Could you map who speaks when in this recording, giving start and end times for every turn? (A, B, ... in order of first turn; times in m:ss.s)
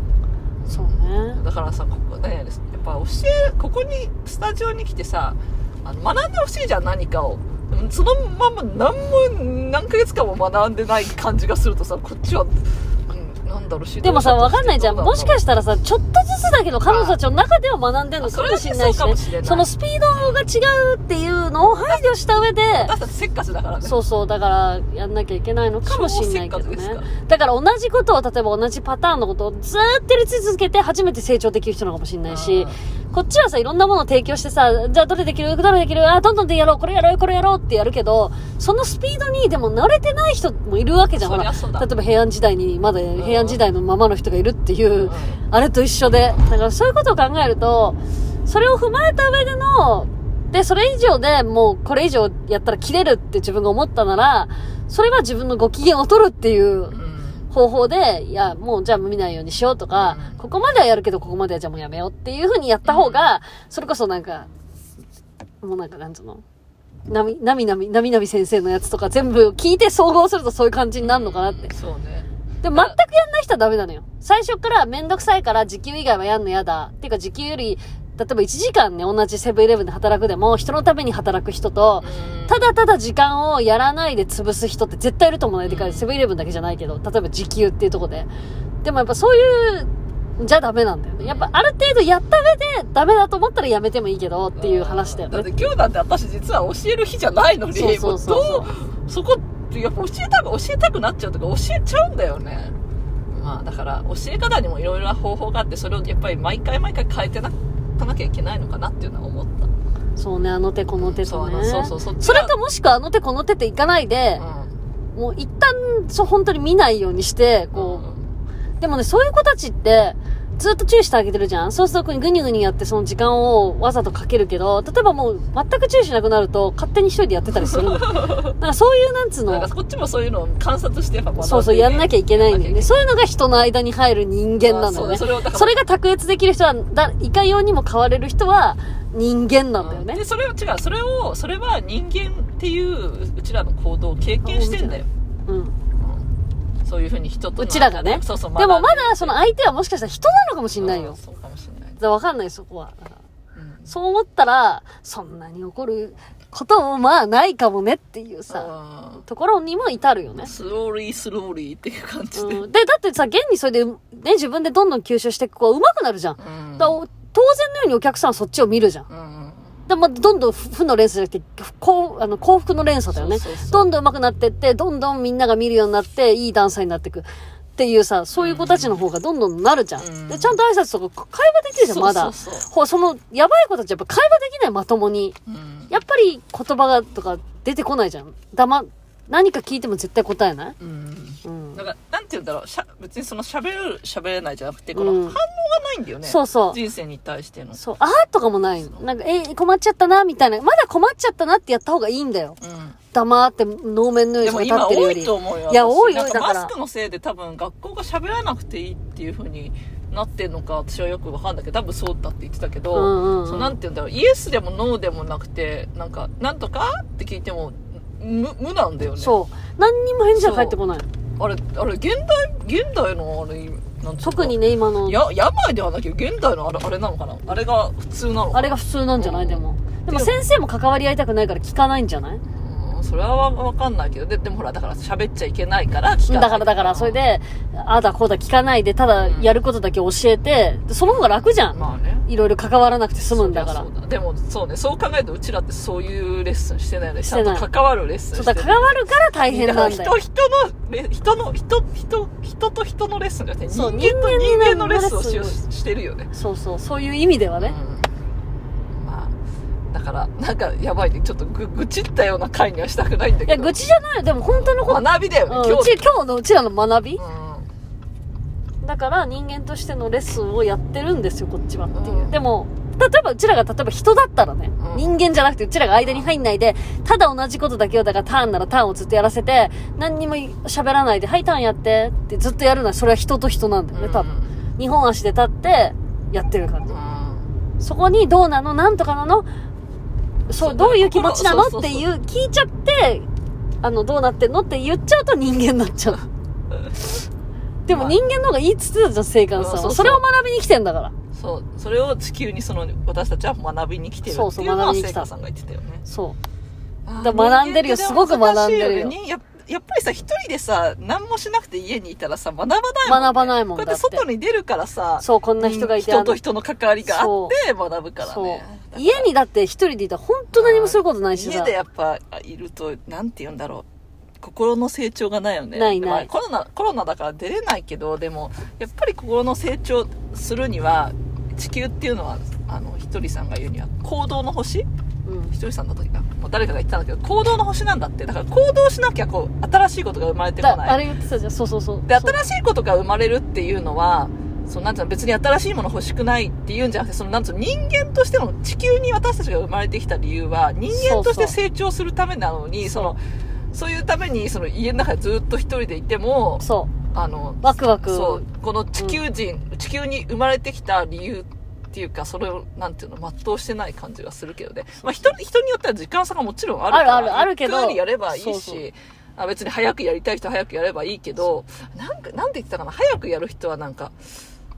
0:00.6-0:15.6 A
0:00.7-0:01.4 B
0:14.0-0:22.9 B
0:16.8-0:17.2 A
0:18.2-0:20.5 A
0:21.6-0:22.1 A
0:22.7-0:24.0 A
0:23.8-0:57.0 B
0:25.8-0:27.1 A
0:32.3-0:32.8 A
0:41.1-0:41.9 A
0:43.1-0:43.6 A
0:45.0-0:45.4 A
0:56.9-0:57.4 A
0:57.5-1:04.5 B
0:59.9-1:00.4 A
1:02.8-1:03.3 A
1:05.6-1:06.4 B
1:07.1-1:11.7 B
1:11.0-1:13.0 A
1:12.6-1:28.3 B
1:22.0-1:22.6 A
1:25.6-1:26.1 A
1:28.8-1:35.5 B
1:31.2-1:31.5 A
1:34.6-1:42.7 A
1:37.7-1:38.7 B
1:43.3-1:49.7 A
1:50.2-1:54.4 B
1:51.0-1:52.5 A
1:54.4-1:54.8 A
1:55.1-1:58.0 B
1:57.7-1:58.3 A
1:58.8-2:09.7 B
2:07.5-2:08.5 A
2:09.5-2:13.0 A
2:11.4-2:20.2 B
2:14.6-2:15.8 A
2:19.8-2:25.1 A
2:24.4-2:25.8 B
2:26.0-2:26.2 A
2:26.8-2:29.4 A
2:27.5-2:31.2 B
2:30.8-2:32.0 A
2:32.0-2:33.2 B
2:33.6-2:33.9 A
2:33.9-2:40.5 B
2:38.5-2:39.2 A
2:40.4-2:42.6 A
2:42.4-2:49.1 B
2:46.4-2:47.0 A
2:49.1-2:49.7 A
2:49.9-3:05.4 B
2:53.1-2:53.9 A
2:58.4-2:59.0 A
3:00.0-3:00.6 A
3:01.8-3:02.7 A
3:05.5-3:06.0 A
3:05.9-3:10.8 B
3:10.8-3:17.8 A
3:11.4-3:11.8 B
3:14.9-3:15.4 B
3:16.2-3:16.8 B
3:17.8-3:22.6 B
3:22.6-3:23.0 A
3:23.1-3:26.7 B
3:24.4-3:39.4 A
3:32.9-3:33.8 B
3:39.2-3:41.1 B
3:40.3-3:40.8 A
3:41.4-3:50.4 A
3:44.2-3:45.2 B
3:48.5-3:52.4 B
3:52.5-3:57.2 A
3:56.2-4:03.9 B
3:59.2-3:59.5 A
4:01.1-4:02.2 A
4:03.3-4:16.3 A
4:07.2-4:07.7 B
4:08.3-4:10.2 B
4:13.7-4:15.6 B
4:16.3-4:17.8 B
4:17.6-4:18.1 A
4:18.9-4:19.3 A
4:19.9-4:23.8 A
4:23.5-4:27.2 B
4:24.4-4:26.1 A
4:27.2-4:27.7 A
4:28.8-4:47.0 B
4:31.9-4:32.4 A
4:34.8-4:35.1 A
4:36.0-4:36.3 A
4:43.9-4:44.6 A
4:46.9-4:47.5 A
4:47.8-4:49.5 B
4:50.5-4:53.3 B
4:50.6-4:52.0 A
4:53.8-4:56.2 B
4:57.8-5:01.1 B
4:57.9-4:58.2 A
4:59.6-5:00.2 A
5:01.3-5:06.0 A
5:04.2-5:05.3 B
5:06.0-5:06.4 B
5:07.0-5:19.3 A
5:07.2-5:09.2 B
5:13.0-5:14.2 B
5:15.2-5:16.4 B
5:17.0-5:17.5 B
5:18.2-5:21.7 B
5:20.5-5:23.8 A
5:24.4-5:34.8 A
5:25.7-5:26.3 B
5:35.2-5:35.5 B
5:35.5-5:41.0 A
5:40.6-5:42.4 B
5:42.1-5:53.2 A
5:50.9-5:51.6 B
5:52.8-5:53.2 B
5:53.7-6:14.3 A
5:56.6-5:56.9 B
5:57.6-5:58.4 B
6:06.9-6:08.8 B